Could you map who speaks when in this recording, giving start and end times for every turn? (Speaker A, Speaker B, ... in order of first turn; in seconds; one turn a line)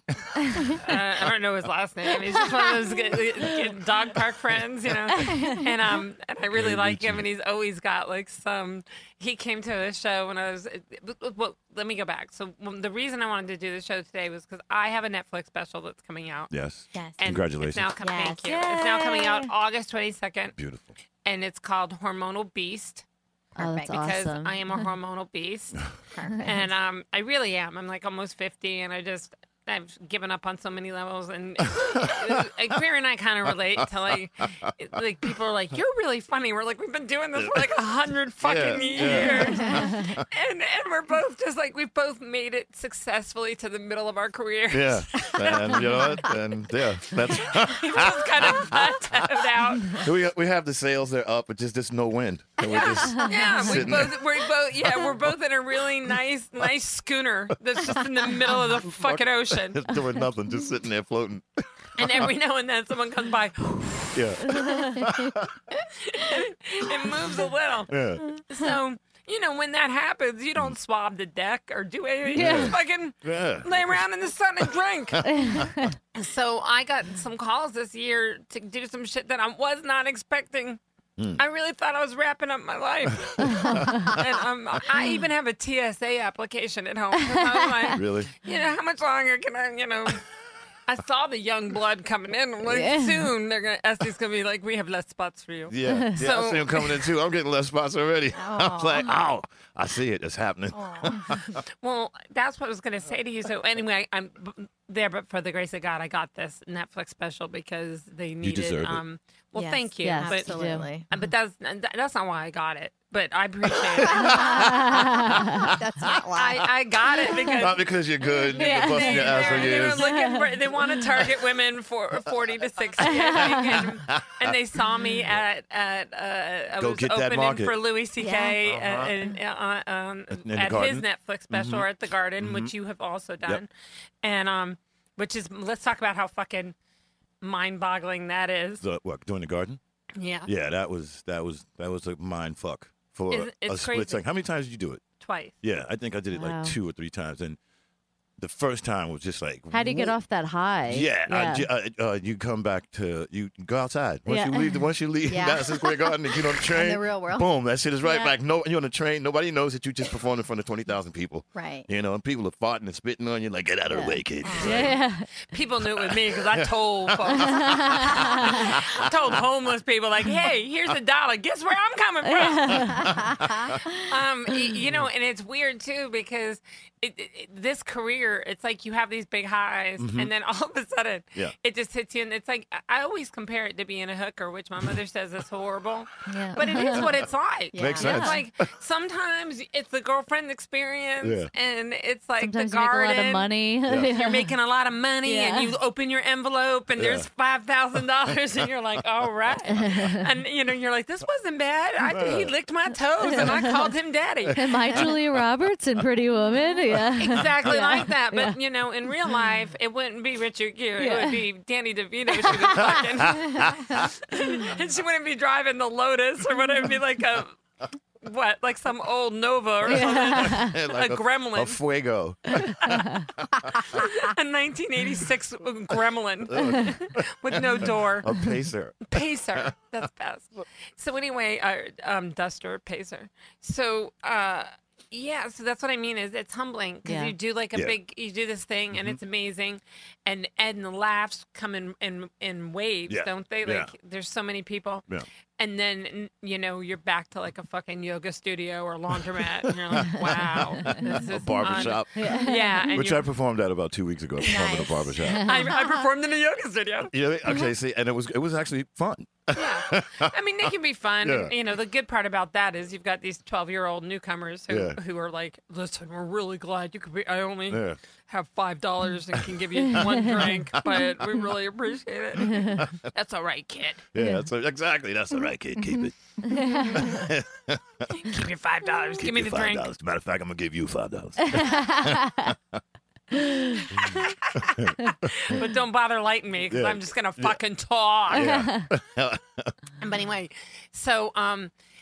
Speaker A: 0.6-16.5
Speaker B: 5.1-5.6
Speaker C: 6.5-7.3
Speaker C: 16.5-17.9
Speaker D: 16.9-17.2
Speaker A: 17.2-20.6
Speaker D: 18.0-18.4
Speaker B: 18.4-19.5
Speaker C: 20.6-20.9
Speaker A: 21.2-23.0
Speaker D: 23.5-23.9
Speaker B: 23.6-24.8
Speaker A: 23.9-25.9
Speaker D: 26.1-26.6
Speaker B: 26.3-26.5
Speaker A: 26.4-46.3
Speaker C: 32.0-32.3
Speaker C: 33.5-34.7
Speaker C: 37.3-37.7
Speaker C: 38.4-40.2
Speaker C: 44.7-49.2
Speaker A: 47.4-50.1
Speaker C: 49.9-54.2
Speaker D: 52.6-53.2
Speaker A: 53.2-59.8
Speaker C: 54.9-55.3
Speaker C: 58.7-61.5
Speaker C: 62.0-62.3
Speaker A: 62.0-64.2
Speaker C: 64.1-65.5
Speaker B: 64.5-65.0
Speaker A: 65.9-75.3
Speaker C: 67.9-68.3
Speaker C: 72.3-74.1
Speaker B: 72.3-72.8
Speaker C: 75.1-75.7
Speaker B: 75.2-76.0
Speaker A: 76.1-80.8
Speaker C: 81.2-81.4
Speaker A: 81.4-90.2
Speaker C: 83.3-84.2
Speaker B: 83.5-84.1
Speaker B: 87.2-88.0
Speaker C: 87.9-88.3
Speaker A: 90.9-97.0
Speaker B: 92.7-93.3
Speaker C: 95.7-101.6
Speaker B: 95.9-96.2
Speaker D: 98.3-99.2
Speaker D: 100.7-101.5
Speaker A: 101.8-114.5
Speaker C: 108.4-109.0
Speaker D: 109.5-111.1
Speaker B: 110.0-110.9
Speaker C: 113.9-115.7
Speaker D: 114.0-117.2
Speaker B: 114.6-115.7
Speaker A: 116.3-118.0
Speaker C: 117.6-120.1
Speaker B: 118.5-120.9
Speaker A: 118.6-133.7
Speaker D: 119.2-119.8
Speaker B: 123.0-123.8
Speaker C: 124.1-124.5
Speaker C: 126.8-127.8
Speaker D: 128.2-128.6
Speaker C: 128.6-129.2
Speaker C: 130.3-132.7
Speaker A: 134.2-136.7
Speaker A: 137.4-138.8
Speaker C: 138.8-139.8
Speaker A: 140.2-140.5
Speaker C: 140.4-145.0
Speaker A: 143.3-144.2
Speaker A: 145.2-145.5
Speaker C: 145.6-147.6
Speaker B: 146.3-146.8
Speaker C: 148.4-150.2
Speaker B: 149.7-151.7
Speaker C: 150.9-165.0
Speaker B: 154.3-154.8
Speaker D: 155.3-157.5
Speaker B: 158.0-158.3
Speaker D: 161.5-161.9
Speaker B: 163.9-165.3
Speaker D: 164.4-164.9
Speaker A: 165.5-172.9
Speaker C: 165.9-169.1
Speaker B: 167.5-168.7
Speaker B: 172.3-173.1
Speaker C: 172.9-173.8
Speaker D: 173.2-173.7
Speaker A: 174.0-193.4
Speaker C: 180.0-180.3
Speaker B: 186.3-187.1
Speaker D: 187.7-188.4
Speaker C: 187.8-188.5
Speaker C: 191.2-191.5
Speaker B: 192.4-194.5
Speaker A: 194.1-204.6
Speaker B: 195.2-195.7
Speaker C: 196.9-197.3
Speaker C: 199.8-200.1
Speaker B: 199.8-200.3
Speaker C: 202.0-202.5
Speaker B: 203.2-203.9
Speaker C: 204.4-205.4
Speaker B: 204.6-208.6
Speaker C: 206.9-207.7
Speaker A: 207.2-217.6
Speaker B: 211.0-211.4
Speaker C: 212.7-214.1
Speaker A: 218.2-221.8
Speaker C: 219.8-224.0
Speaker B: 219.9-220.8
Speaker B: 222.5-223.2
Speaker A: 223.8-228.3
Speaker C: 226.5-229.7
Speaker A: 229.1-245.0
Speaker B: 237.0-237.3
Speaker C: 238.9-239.2
Speaker C: 243.1-243.9
Speaker A: 245.6-253.2
Speaker C: 249.4-252.3
Speaker B: 252.1-252.9
Speaker C: 252.9-255.4
Speaker D: 254.4-255.7
Speaker B: 255.2-255.8
Speaker A: 255.4-257.1
Speaker C: 257.1-260.3
Speaker A: 259.5-274.0
Speaker C: 261.2-261.5
Speaker C: 264.7-265.0
Speaker C: 267.7-268.0
Speaker C: 269.9-271.0
Speaker C: 272.4-272.9
Speaker B: 272.5-272.8
Speaker C: 274.1-277.8
Speaker B: 274.2-274.4
Speaker B: 276.5-277.0
Speaker A: 278.1-279.9
Speaker C: 279.2-282.8
Speaker B: 281.5-282.5
Speaker B: 283.3-283.8
Speaker C: 283.9-285.6
Speaker A: 284.1-288.5
Speaker C: 286.7-287.6
Speaker C: 288.3-289.7
Speaker B: 288.4-288.8
Speaker A: 290.0-291.7